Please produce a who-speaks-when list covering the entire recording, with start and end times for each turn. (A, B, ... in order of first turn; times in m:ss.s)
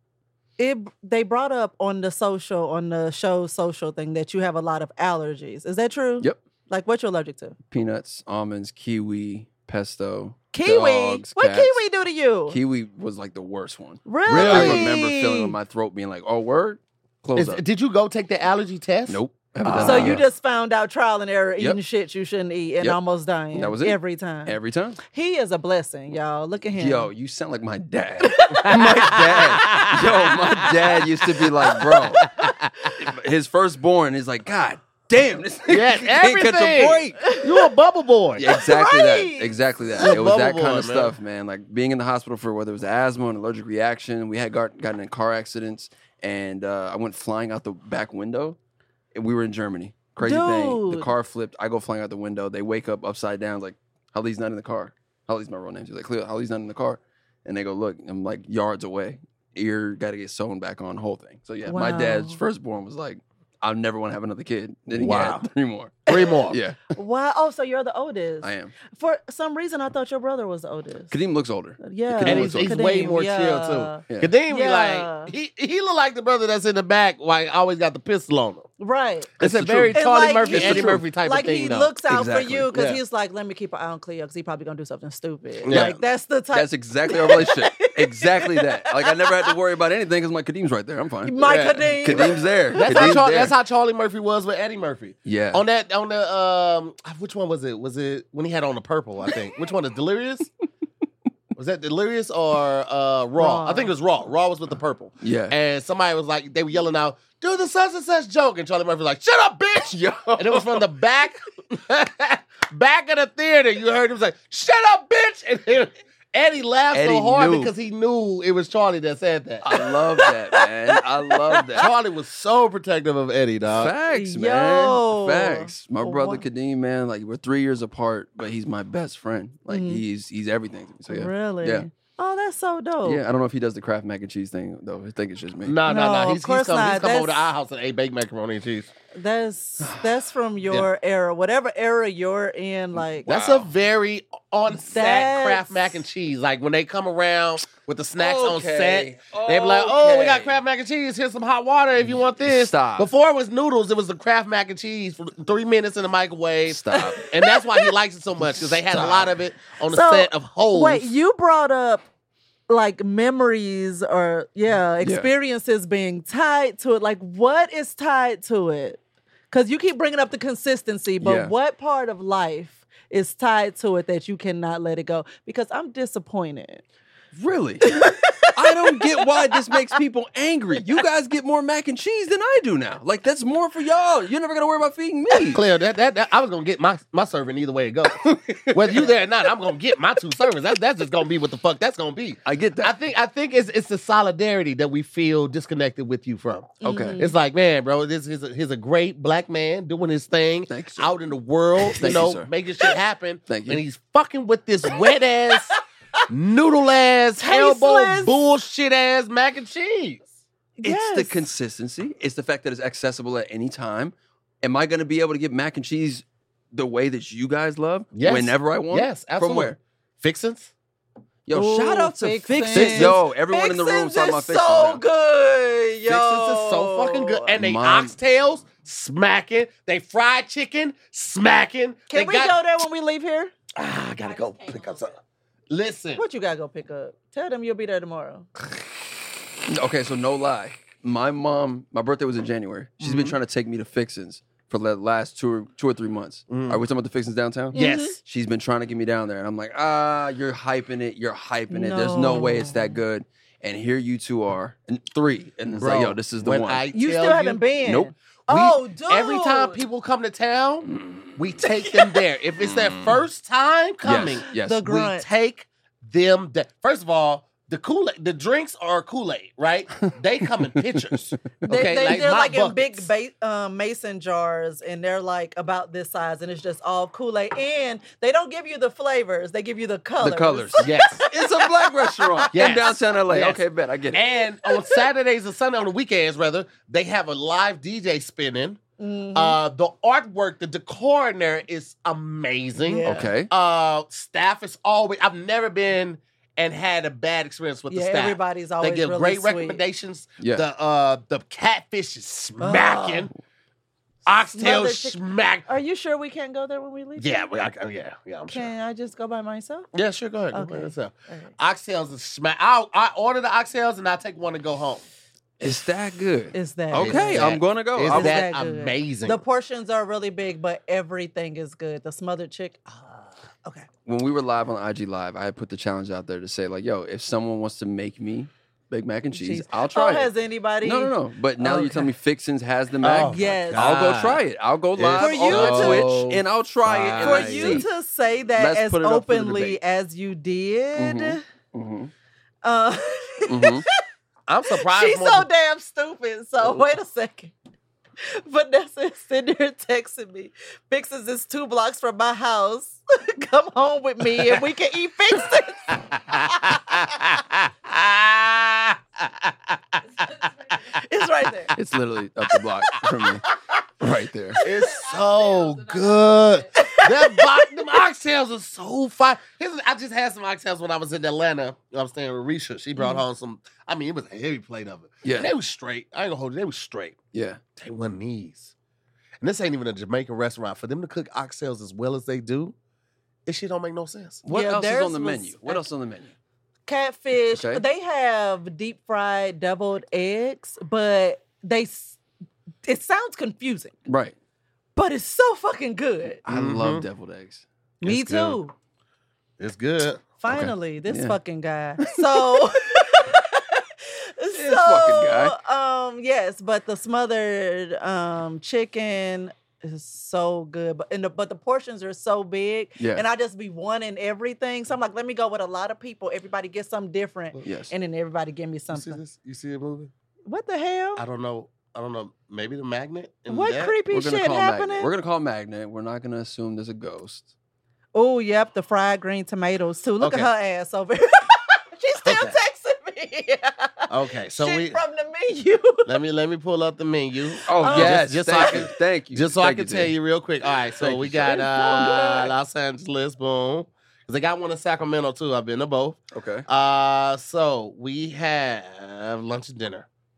0:00.6-0:07.6 A
0:07.7-0:11.8 B
0:10.5-0:12.6 A
0:12.5-0:17.6 B
0:14.1-0:15.6 A
0:14.3-0:14.9 C
0:17.4-0:20.2 C
0:19.1-0:20.2 B
0:19.7-0:27.1 A
0:23.5-0:25.0 B
0:26.8-0:32.2 B
0:28.2-0:30.8 A
0:28.5-0:30.7 C
0:31.6-0:33.0 A
0:31.8-0:32.7 C
0:33.0-0:37.4 B
0:35.7-0:38.5 C
0:37.2-0:37.5 A
0:38.4-0:48.6 B
0:38.5-0:40.1 A
0:40.0-0:41.1 C
0:49.1-1:07.0 B
0:50.2-0:51.1 A
1:01.7-1:02.4 A
1:05.0-1:05.5 C
1:06.1-1:06.6 C
1:06.1-1:11.2 A
1:08.4-1:08.7 B
1:11.1-1:12.8 B
1:11.8-1:15.3 A
1:12.2-1:18.7 C
1:18.8-1:19.3 A
1:19.4-1:21.0 B
1:19.4-1:21.9 C
1:19.9-1:29.5 A
1:22.1-1:22.7 B
1:22.7-1:23.0 C
1:25.6-1:25.9 C
1:25.7-1:33.5 B
1:31.2-1:33.1 A
1:31.4-1:40.5 C
1:35.2-1:35.6 B
1:41.6-1:59.7 C
1:43.4-1:43.9 A
1:45.2-1:45.6 B
1:49.8-1:50.9 B
1:56.9-1:57.7 B
1:59.6-2:01.9 B
2:00.2-2:01.9 A
2:01.8-2:03.9 C
2:03.7-2:11.9 B
2:04.1-2:06.4 A
2:09.7-2:10.0 A
2:11.1-2:13.2 A
2:13.0-2:15.8 B
2:15.6-2:18.9 C
2:15.9-2:17.5 A
2:19.2-2:23.3 A
2:19.8-2:20.2 B
2:23.3-2:23.7 B
2:23.3-2:41.1 C
2:24.8-2:26.0 A
2:28.2-2:30.6 B
2:32.4-2:33.1 B
2:36.7-2:37.3 B
2:36.9-2:37.9 A
2:38.8-2:39.4 B
2:39.9-2:42.0 A
2:42.7-2:49.0 A
2:45.0-2:45.3 B
2:49.5-2:56.8 A
2:51.2-2:51.5 B
2:57.3-3:05.6 B
2:57.8-2:59.6 A
3:05.5-3:25.7 C
3:08.2-3:09.1 B
3:12.4-3:12.9 B
3:16.8-3:17.4 A
3:16.8-3:17.2 B
3:20.7-3:21.1 B
3:22.0-3:22.5 B
3:23.5-3:23.8 B
3:25.5-3:25.8 A
3:26.3-3:30.3 C
3:27.4-3:28.4 A
3:30.8-3:31.4 A
3:30.8-3:39.8 B
3:38.2-3:40.7 C
3:41.5-3:45.0 B
3:41.5-3:47.5 A
3:42.7-3:43.2 C
3:46.1-3:52.6 C
3:47.6-3:48.1 B
3:52.1-3:53.5 A
3:53.8-3:55.2 C
3:55.7-3:56.2 C
3:56.2-3:58.5 A
3:59.7-4:16.8 B
4:03.0-4:03.4 C
4:06.5-4:06.8 C
4:07.7-4:08.2 A
4:07.7-4:08.2 C
4:11.7-4:12.9 A
4:15.8-4:17.6 C
4:16.9-4:19.8 A
4:17.8-4:18.1 B
4:18.5-4:33.1 C
4:20.9-4:21.4 B
4:22.6-4:23.2 B
4:24.0-4:24.9 B
4:24.6-4:25.3 A
4:31.6-4:42.6 A
4:40.2-4:44.2 B
4:40.8-4:41.2 C
4:42.5-4:48.8 C
4:44.6-4:45.0 A
4:49.0-4:49.6 A
4:49.3-5:03.3 C
4:52.8-4:53.3 A
4:53.0-4:53.5 B
4:57.9-4:59.8 A
5:00.4-5:00.6 B
5:02.6-5:03.3 A
5:04.3-5:05.7 C
5:04.5-5:07.5 A
5:07.2-5:08.7 C
5:08.5-5:09.9 A
5:09.9-5:15.0 C
5:10.5-5:11.5 A
5:15.6-5:18.4 B
5:16.5-5:23.9 A
5:16.9-5:19.4 C
5:24.1-5:30.3 B
5:29.3-5:32.1 A
5:30.8-5:37.9 B
5:33.0-5:34.4 C
5:33.3-5:33.8 A
5:35.0-5:37.8 C
5:35.2-5:36.1 A
5:37.2-5:41.4 A
5:38.6-5:39.8 B
5:41.0-5:42.1 B
5:42.6-5:43.9 A
5:43.5-5:43.8 B
5:44.5-5:45.5 C
5:44.7-5:47.5 A
5:48.2-5:57.1 A
5:55.9-6:01.0 C
6:00.9-6:01.8 A
6:01.8-6:03.5 B
6:03.0-6:03.8 A
6:04.0-6:04.6 B
6:04.6-6:05.0 A
6:04.6-6:17.2 C
6:06.8-6:07.7 A
6:13.0-6:13.2 A
6:15.2-6:15.5 B
6:17.3-6:17.6 B
6:17.8-6:18.7 C
6:19.4-6:22.8 C
6:23.5-6:24.4 C
6:24.4-6:26.3 B
6:24.5-6:25.8 A
6:26.9-6:32.2 A
6:27.5-6:27.8 B
6:32.8-6:34.0 A
6:34.1-6:34.4 B
6:35.0-6:36.4 A
6:36.4-6:37.6 B
6:36.5-6:37.1 C
6:38.0-6:38.7 A
6:38.0-6:38.6 C
6:39.6-6:40.2 C
6:40.4-6:59.2 A
6:40.5-6:41.4 B
6:42.0-6:42.6 B
6:44.5-6:45.6 B
6:53.0-6:53.2 B
6:57.6-6:57.9 B
6:58.9-7:00.1 C
7:00.5-7:01.2 A
7:01.2-7:04.0 C
7:03.5-7:05.1 A
7:04.1-7:07.5 B
7:08.1-7:16.1 A
7:10.2-7:10.5 C
7:12.2-7:12.6 C
7:14.1-7:15.0 C
7:16.1-7:30.1 C
7:17.7-7:20.1 B
7:17.8-7:18.3 A
7:21.0-7:22.5 B
7:26.3-7:26.6 B